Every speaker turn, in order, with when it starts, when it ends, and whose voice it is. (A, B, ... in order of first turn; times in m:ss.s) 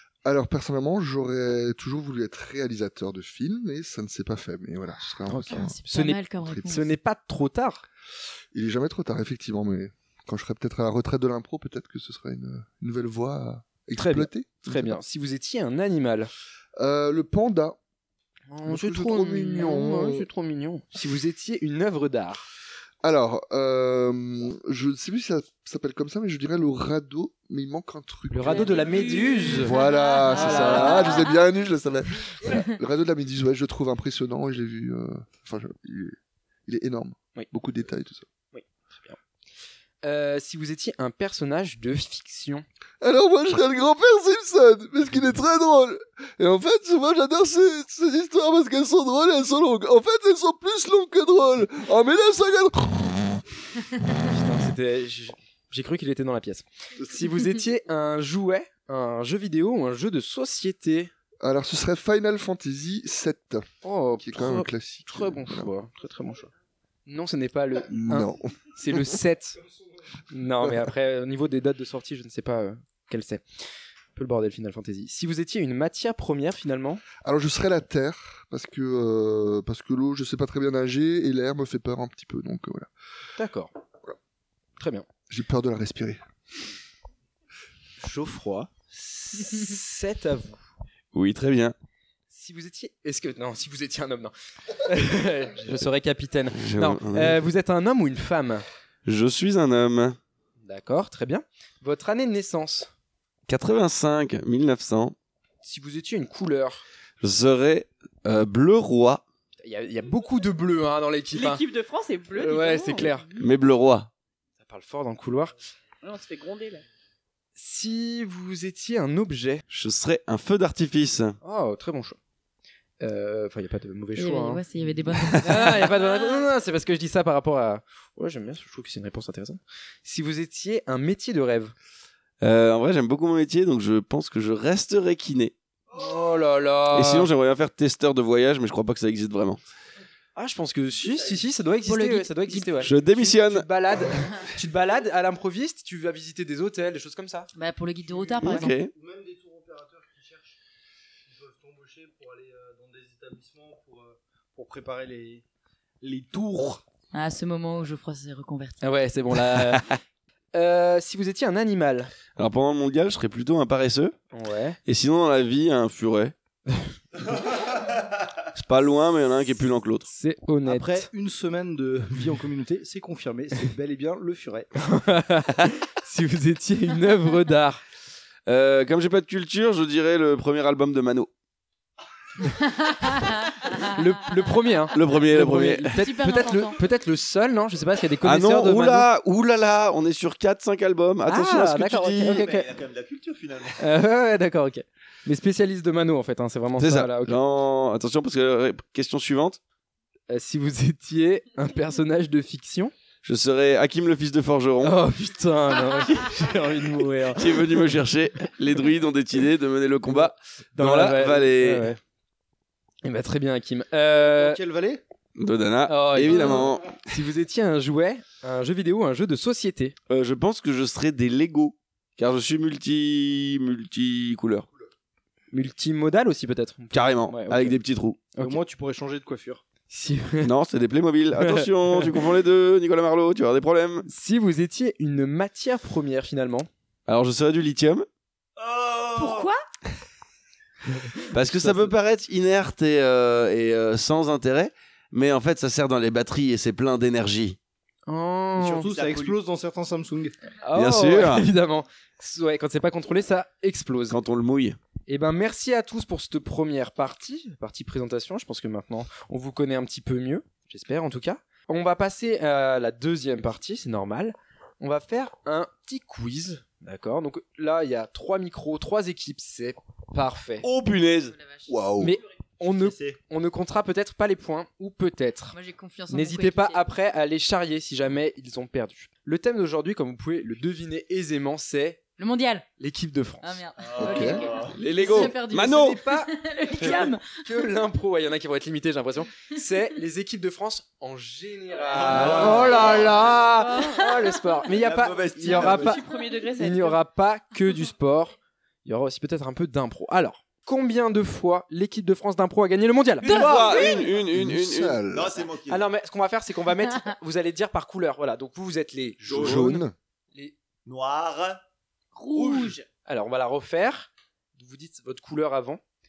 0:00.2-0:05.8 A
0:05.3-0:07.8 B
0:05.5-0:06.9 C
0:06.4-0:06.7 A
0:08.5-0:15.0 A
0:14.0-0:16.3 B
0:16.8-0:17.8 A
0:18.5-0:22.4 B
0:18.6-0:20.3 A
0:23.0-0:29.0 A
0:28.3-0:29.7 B
0:28.5-0:31.4 C
0:29.6-0:38.3 A
0:30.3-0:31.1 B
0:38.5-0:39.2 B
0:40.0-0:42.6 B
0:43.0-0:53.4 A
0:54.2-1:01.1 B
1:01.4-1:03.7 A
1:03.8-1:06.5 B
1:04.2-1:05.7 A
1:07.0-1:09.6 B
1:07.9-1:09.2 A
1:10.3-1:13.4 B
1:14.1-1:17.0 B
1:17.2-1:22.9 A
1:23.4-1:23.7 B
1:24.8-1:25.0 B
1:25.3-1:26.2 A
1:28.0-1:30.6 B
1:31.1-1:31.7 D
1:32.3-1:38.6 B
1:36.5-1:37.4 D
1:39.0-1:40.2 D
1:40.6-1:42.9 B
1:43.5-1:45.1 D
1:45.6-1:46.8 B
1:47.2-1:49.2 D
1:49.6-1:51.6 B
1:51.3-1:53.5 E
1:52.3-1:53.3 B
1:53.4-1:54.1 D
1:54.6-1:55.5 B
1:56.0-1:56.8 E
1:57.6-1:59.6 B
1:59.7-2:01.4 D
2:01.4-2:02.2 B
2:03.0-2:04.6 B
2:04.2-2:05.9 C
2:05.4-2:11.7 B
2:12.4-2:15.5 D
2:15.9-2:17.3 B
2:16.9-2:19.6 D
2:20.4-2:27.5 B
2:21.8-2:22.8 C
2:22.8-2:23.6 D
2:27.5-2:28.8 C
2:28.2-2:30.6 F
2:28.4-2:28.9 D
2:31.2-2:35.4 F
2:36.0-2:36.8 F
2:37.1-2:38.9 C
2:38.8-2:39.9 B
2:39.6-2:39.9 D
2:40.5-2:42.1 B
2:42.4-2:44.1 D
2:44.3-2:44.8 B
2:44.8-2:46.3 D
2:48.5-2:50.1 D
2:50.0-2:51.1 B
2:50.6-2:54.7 F
2:54.8-2:57.8 B
2:58.4-3:01.3 D
3:02.6-3:03.8 C
3:03.7-3:09.1 B
3:04.9-3:06.0 D
3:05.9-3:06.8 C
3:08.2-3:12.4 D
3:11.2-3:12.7 B
3:12.2-3:13.9 G
3:13.8-3:17.4 B
3:16.8-3:19.6 D
3:20.3-3:22.9 B
3:23.2-3:25.0 D
3:24.8-3:27.8 B
3:27.3-3:31.9 D
3:30.1-3:32.0 B
3:33.0-3:34.6 B
3:34.2-3:35.0 F
3:35.4-3:37.0 D
3:35.8-3:40.0 B
3:40.1-3:44.7 D
3:45.5-3:47.8 B
3:46.9-3:48.3 D
3:48.4-3:49.6 F
3:49.9-3:50.5 B
3:50.4-3:54.1 D
3:51.4-3:52.2 B
3:54.0-3:56.7 B
3:57.1-3:58.0 D
3:58.6-3:59.5 G
3:59.2-3:59.6 C
4:01.3-4:01.9 B
4:01.3-4:07.6 D
4:08.1-4:08.9 B
4:08.6-4:10.3 F
4:08.8-4:09.4 G
4:10.6-4:14.2 B
4:10.7-4:11.5 D
4:14.1-4:14.8 D
4:15.1-4:30.7 B
4:30.6-4:31.4 D
4:31.3-4:31.7 C
4:31.7-4:32.2 A
4:32.0-4:35.6 B
4:32.6-4:33.2 G
4:35.5-4:36.8 C
4:36.1-4:42.0 B
4:42.2-4:42.7 C
4:42.8-4:43.6 B
4:43.4-4:47.4 C
4:43.8-4:44.8 G
4:44.0-4:44.4 A
4:44.7-4:46.0 D
4:45.6-4:56.0 B
4:51.9-4:53.3 G
4:52.3-4:52.6 A
4:52.4-4:53.1 E
4:53.6-4:54.6 C
4:54.7-4:56.0 G
4:55.4-4:57.0 E
4:56.6-5:03.3 B
5:03.2-5:04.2 G
5:03.2-5:03.9 C
5:03.3-5:05.0 D
5:04.3-5:05.4 A
5:05.0-5:05.9 G
5:05.7-5:10.5 B
5:09.2-5:09.9 A
5:09.2-5:09.6 G
5:10.8-5:11.6 G
5:12.1-5:12.8 E
5:13.0-5:15.8 B